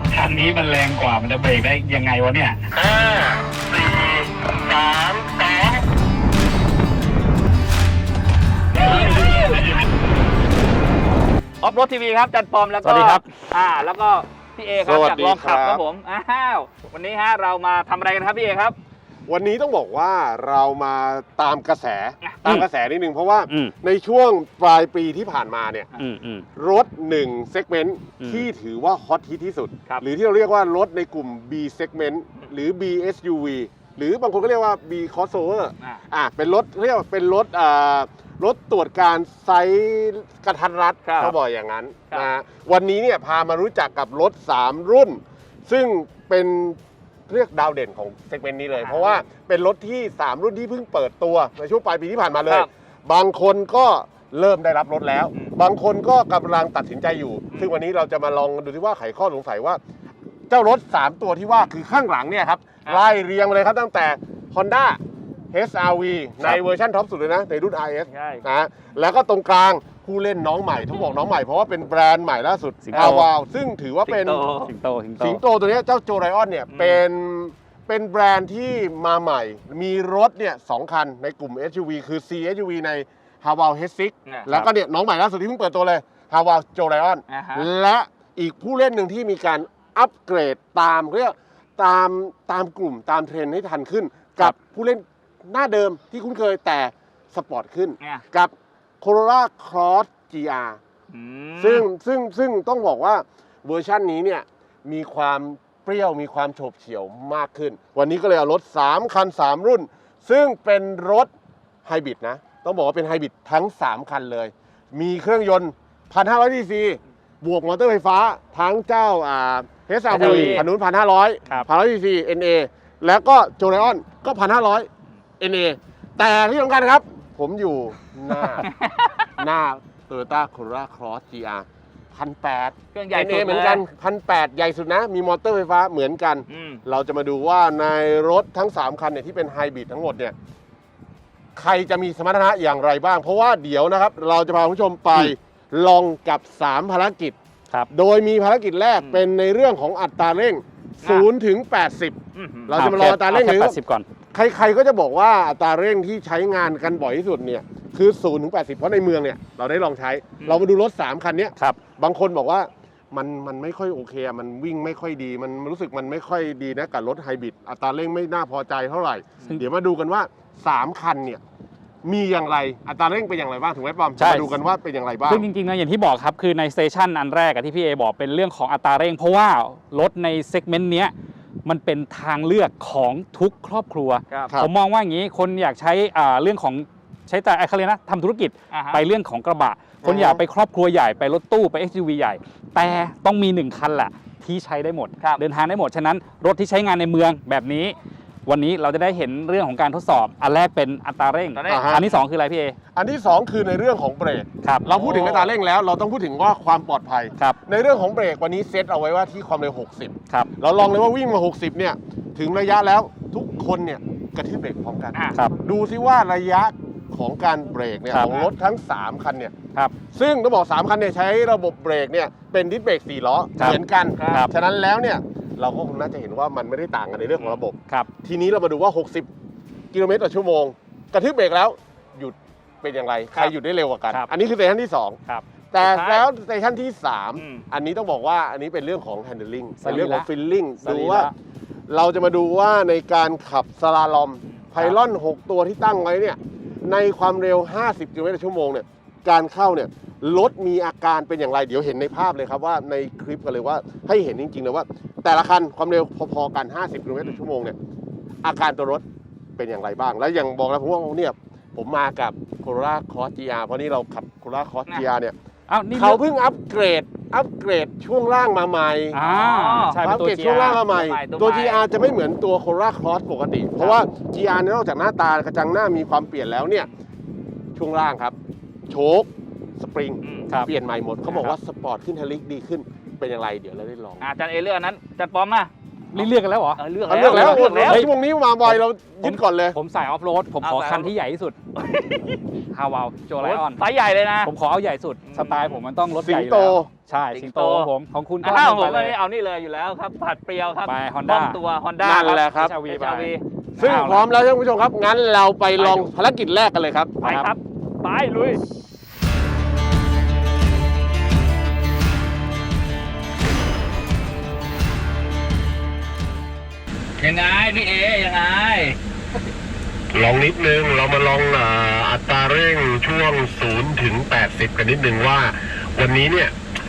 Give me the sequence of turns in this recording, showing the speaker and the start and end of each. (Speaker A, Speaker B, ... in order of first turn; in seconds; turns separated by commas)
Speaker A: 0.1-2.6, Speaker B: 2.7-5.8, Speaker C: 8.8-9.8, Speaker B: 8.8-9.8, Speaker C: 11.6-18.8, Speaker A: 12.8-13.3, Speaker B: 14.8-15.8, Speaker B: 19.3-25.9, Speaker A: 26.0-26.4, Speaker B: 26.6-59.8, Speaker A: 28.2-28.5, Speaker C: 41.0-41.3, Speaker C: 48.8-49.2, Speaker B: 60.5-65.0, Speaker B: 65.5-74.5, Speaker C: 68.1-68.4, Speaker A: 72.8-73.3, Speaker C: 72.9-73.2, Speaker C: 74.1-74.7, Speaker A: 74.7-75.4, Speaker B: 75.2-100.8, Speaker C: 76.7-77.0, Speaker C: 87.3-87.7, Speaker C: 101.1-101.9, Speaker B: 101.6-111.3, Speaker B: 111.8-124.9, Speaker A: 120.1-120.7, Speaker C: 120.1-120.7, Speaker B: 125.4-128.7, Speaker C: 128.7-129.3, Speaker B: 129.4-140.3, Speaker C: 132.9-133.8, Speaker C: 136.5-136.8, Speaker B: 141.6-147.4, Speaker B: 147.9-153.8, Speaker C: 152.3-152.9, Speaker A: 152.8-154.1, Speaker B: 154.3-171.4, Speaker B: 172.1-175.4, Speaker A: 174.2-174.5, Speaker A: 175.3-181.1, Speaker A: 181.7-197.9, Speaker C: 188.7-189.0, Speaker B: 190.0-190.4, Speaker A: 198.5-202.8, Speaker C: 201.6-202.1, Speaker B: 201.7-202.0, Speaker B: 202.9-219.5, Speaker C: 204.9-205.5, Speaker A: 218.1-218.5, Speaker B: 220.1-229.3, Speaker C: 224.2-224.5, Speaker B: 229.9-235.2, Speaker B: 235.7-241.3, Speaker C: 235.8-236.2, Speaker C: 237.4-237.7, Speaker A: 239.8-240.3, Speaker A: 240.8-241.3, Speaker B: 241.9-257.8, Speaker B: 258.4-259.1, Speaker B: 259.6-265.4, Speaker A: 265.7-266.2, Speaker B: 265.9-269.2, Speaker A: 269.1-270.8, Speaker C: 269.2-270.0, Speaker B: 270.0-276.9, Speaker C: 270.5-271.8, Speaker B: 277.8-278.4, Speaker B: 278.9-284.2, Speaker C: 280.2-280.5, Speaker A: 281.3-281.6, Speaker C: 284.2-288.1, Speaker A: 286.1-288.1, Speaker B: 287.1-289.8, Speaker A: 288.6-291.6, Speaker C: 290.6-291.1, Speaker C: 291.8-292.4, Speaker A: 292.7-293.8, Speaker C: 293.4-294.5, Speaker A: 294.4-299.2, Speaker C: 295.3-295.8, Speaker B: 296.2-296.9, Speaker C: 297.3-297.9, Speaker C: 298.4-304.1, Speaker A: 300.9-301.6, Speaker B: 302.0-302.8, Speaker A: 302.6-304.2, Speaker B: 303.8-307.2, Speaker C: 307.2-308.6, Speaker A: 307.2-307.5, Speaker C: 317.2-319.0, Speaker B: 320.1-326.5